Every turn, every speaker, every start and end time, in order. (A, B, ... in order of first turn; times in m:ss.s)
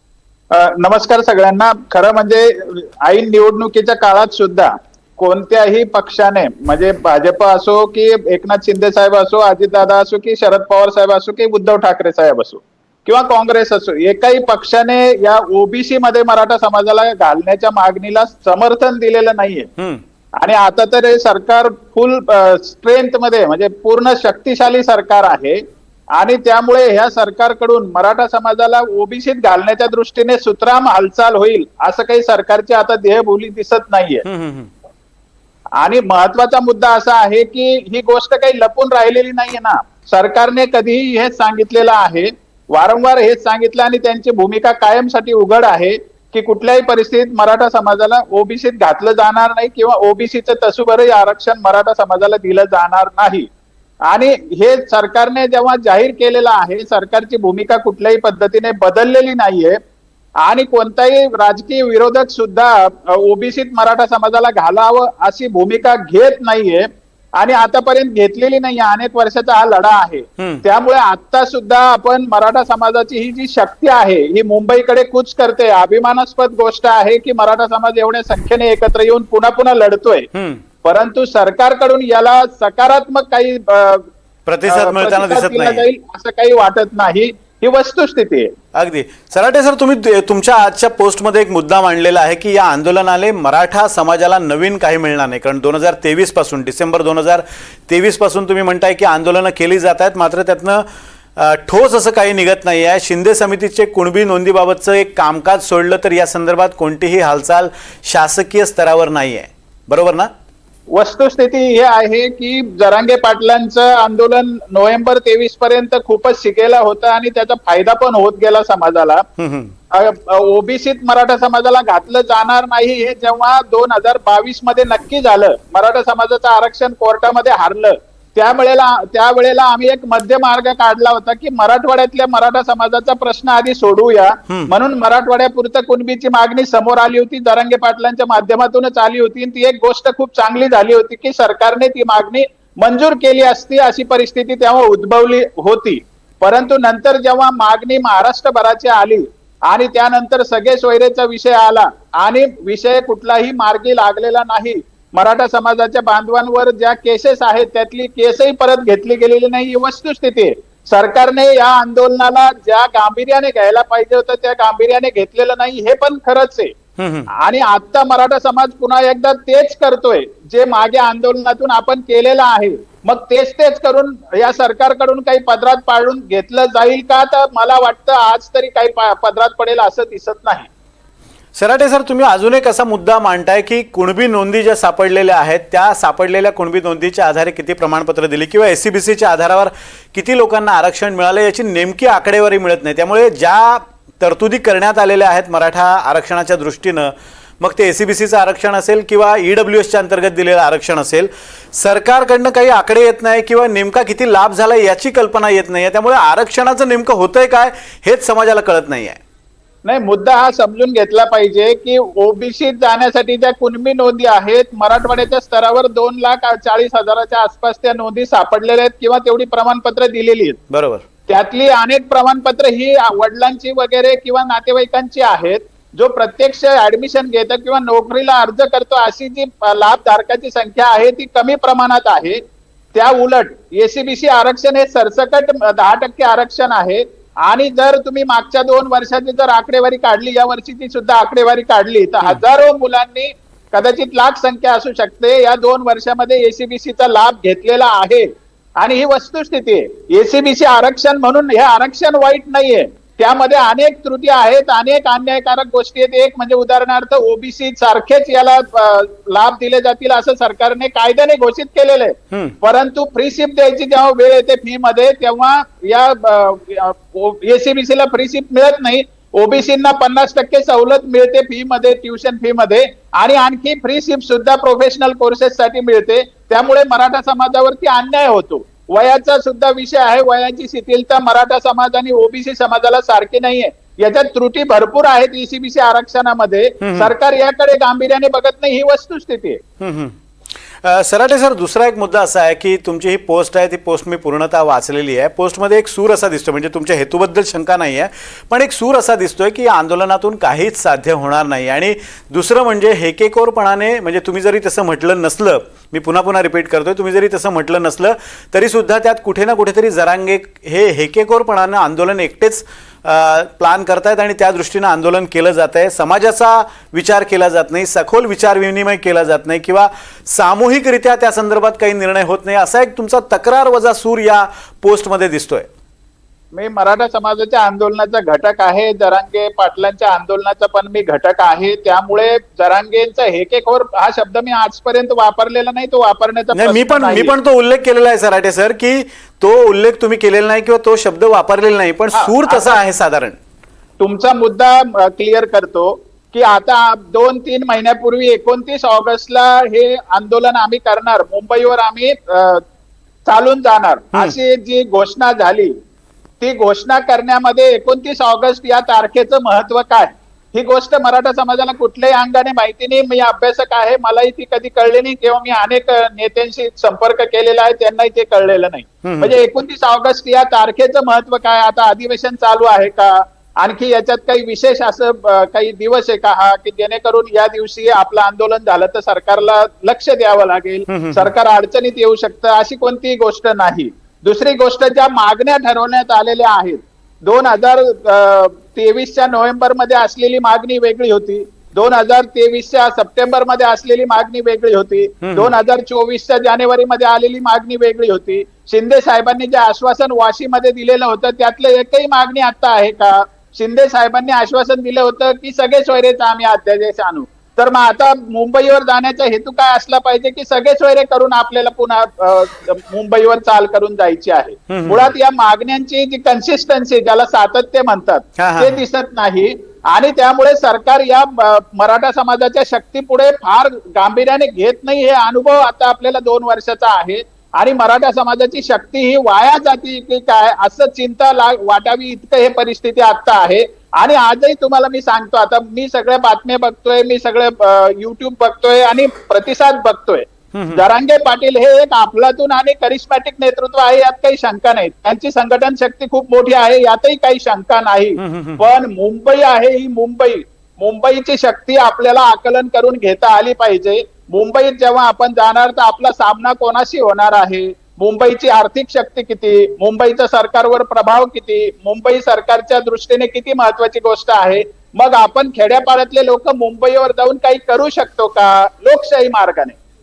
0:00.5-0:19.7 A
0:20.4-0:34.2 A
0:34.2-0:34.7 B
0:35.8-0:53.5 A
0:54.0-0:59.8 A
1:00.4-1:20.3 A
1:10.4-1:10.6 B
1:20.3-1:20.6 B
1:20.8-1:24.1 A
1:24.4-1:25.8 B
1:24.7-1:28.5 A
1:28.7-1:40.8 B
1:41.4-1:50.3 B
1:50.9-1:59.3 A
1:59.4-1:59.7 B
1:59.9-2:46.7 A
2:47.0-2:47.3 B
2:47.3-3:00.7 A
3:01.6-3:29.2 B
3:29.8-3:40.6 A
3:40.7-3:41.0 B
3:41.3-3:52.4 A
3:52.9-4:49.6 A
4:46.8-4:47.1 B
4:49.8-4:50.2 B
4:50.8-5:25.7 B
5:26.5-5:37.3 A
5:36.5-5:43.4 B
5:42.1-5:42.8 A
5:44.0-5:52.6 A
5:53.2-5:55.7 A
5:56.4-7:49.8 A
6:09.0-6:09.3 B
6:20.9-6:21.3 B
6:35.2-6:35.5 B
6:54.7-6:55.1 B
6:58.4-6:58.8 B
7:20.5-7:20.8 B
7:28.2-7:28.6 B